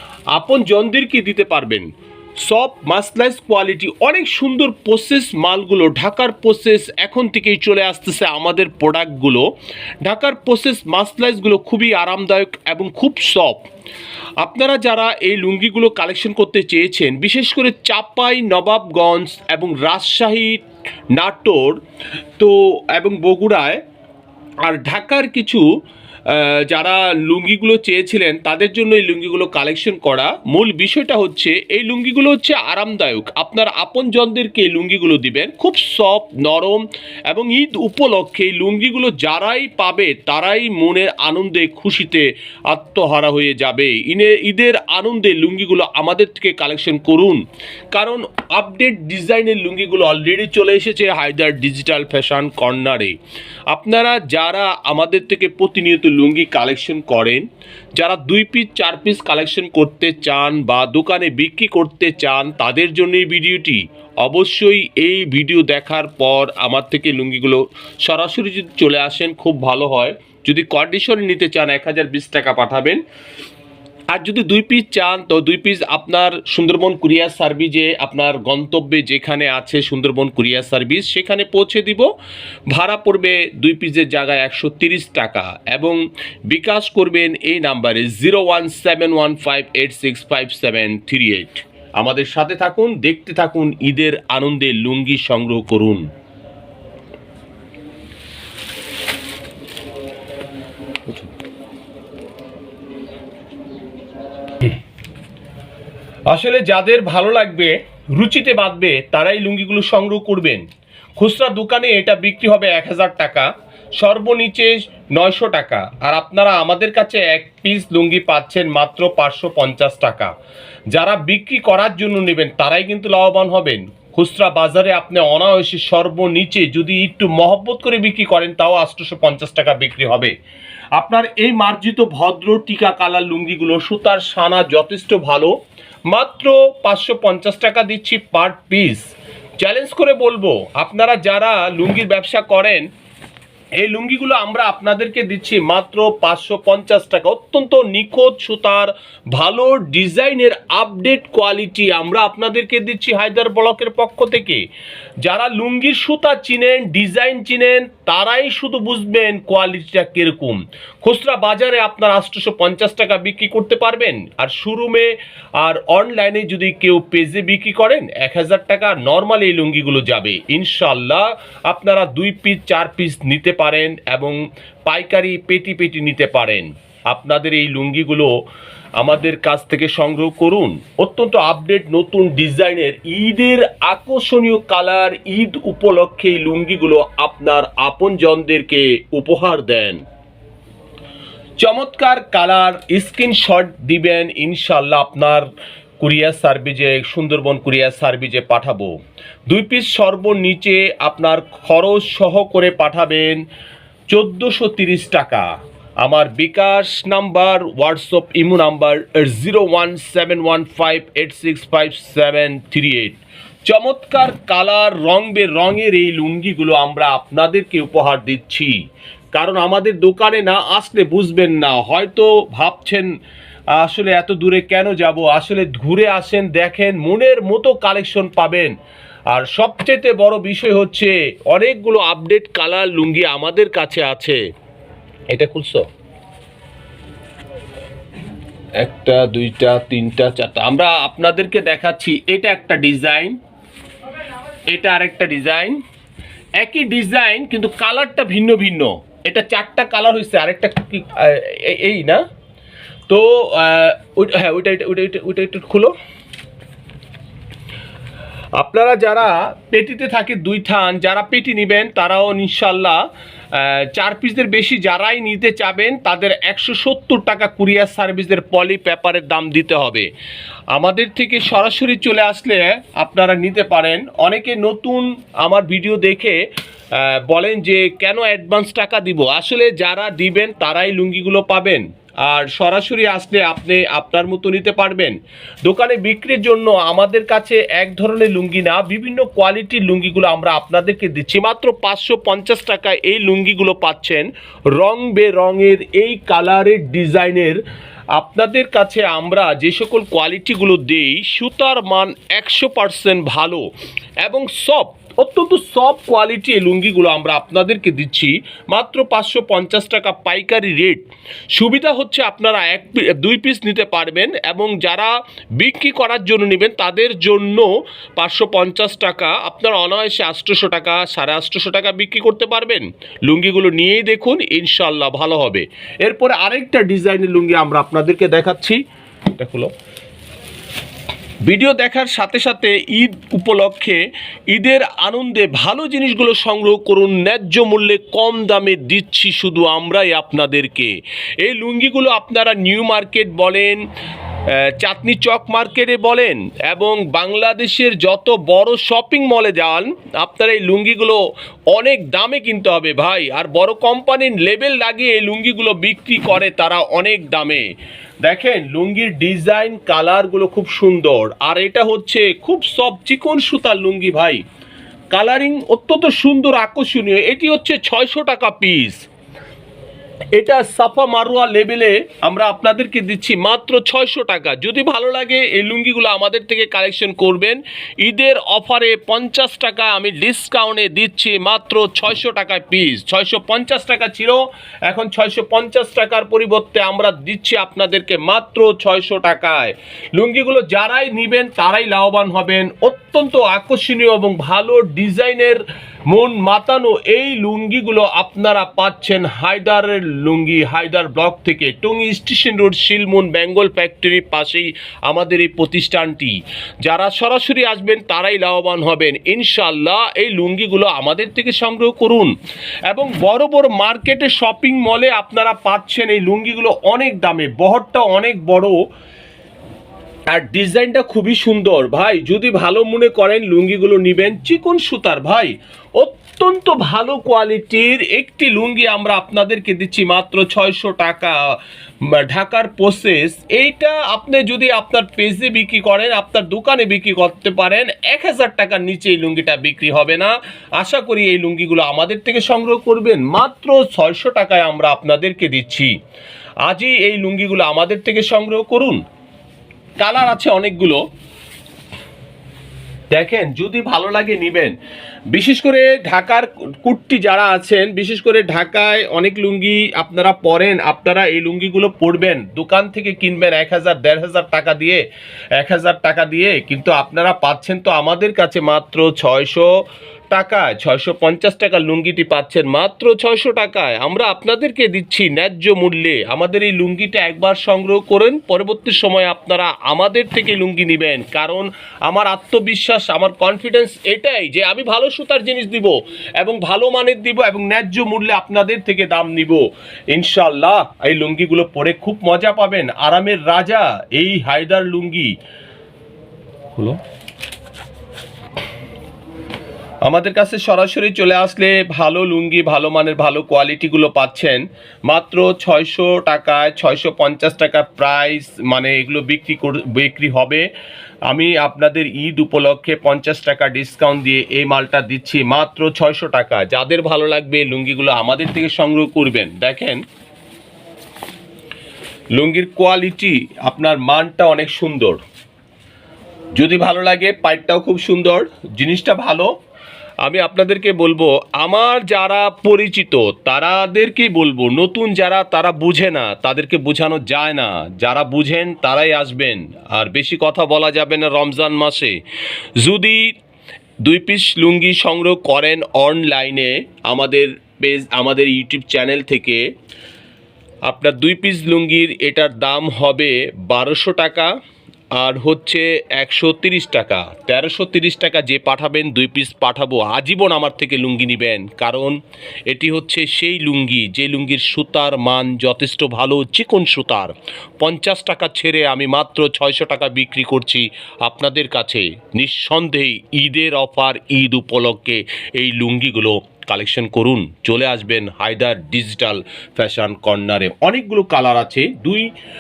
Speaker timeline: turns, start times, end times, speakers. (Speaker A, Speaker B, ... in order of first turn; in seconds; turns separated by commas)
Speaker A: 0.3-1.9, Speaker A: 2.4-9.4, Speaker A: 10.0-13.7, Speaker A: 14.4-20.6, Speaker A: 21.1-21.8, Speaker A: 22.4-23.8, Speaker A: 24.6-25.6, Speaker A: 26.3-47.4, Speaker A: 47.9-53.1, Speaker A: 53.7-57.4, Speaker A: 58.0-73.0, Speaker A: 74.1-82.1, Speaker A: 82.7-96.0, Speaker A: 106.3-110.6, Speaker A: 111.2-120.3, Speaker A: 120.9-130.3, Speaker A: 130.9-135.5, Speaker A: 136.1-139.0, Speaker A: 139.6-142.8, Speaker A: 143.8-154.6, Speaker A: 155.2-178.3, Speaker A: 179.0-190.0, Speaker A: 191.6-195.5, Speaker A: 196.0-199.0, Speaker A: 199.5-203.4, Speaker A: 204.1-205.5, Speaker A: 206.0-218.8, Speaker A: 219.3-223.1, Speaker A: 223.7-228.7, Speaker A: 229.3-234.4, Speaker A: 235.3-235.9, Speaker A: 238.8-243.4, Speaker A: 244.7-245.8, Speaker A: 246.6-252.2, Speaker A: 253.1-255.9, Speaker A: 258.6-270.1, Speaker A: 270.7-276.4, Speaker A: 276.9-303.7, Speaker A: 304.2-328.8, Speaker A: 329.3-329.7, Speaker A: 331.4-343.8, Speaker A: 344.5-357.6, Speaker A: 358.2-364.4, Speaker A: 365.1-369.0, Speaker A: 370.3-412.3, Speaker A: 412.9-418.8, Speaker A: 420.3-445.9, Speaker A: 446.6-449.0, Speaker A: 450.0-451.0, Speaker A: 453.1-454.7, Speaker A: 455.3-465.0, Speaker A: 465.6-469.7, Speaker A: 470.3-495.3, Speaker A: 500.0-510.6, Speaker A: 511.3-520.0, Speaker A: 522.3-525.2, Speaker A: 526.5-529.5, Speaker A: 530.2-542.2, Speaker A: 542.8-543.3, Speaker A: 544.0-549.6, Speaker A: 550.9-554.5, Speaker A: 555.1-562.2, Speaker A: 562.7-582.3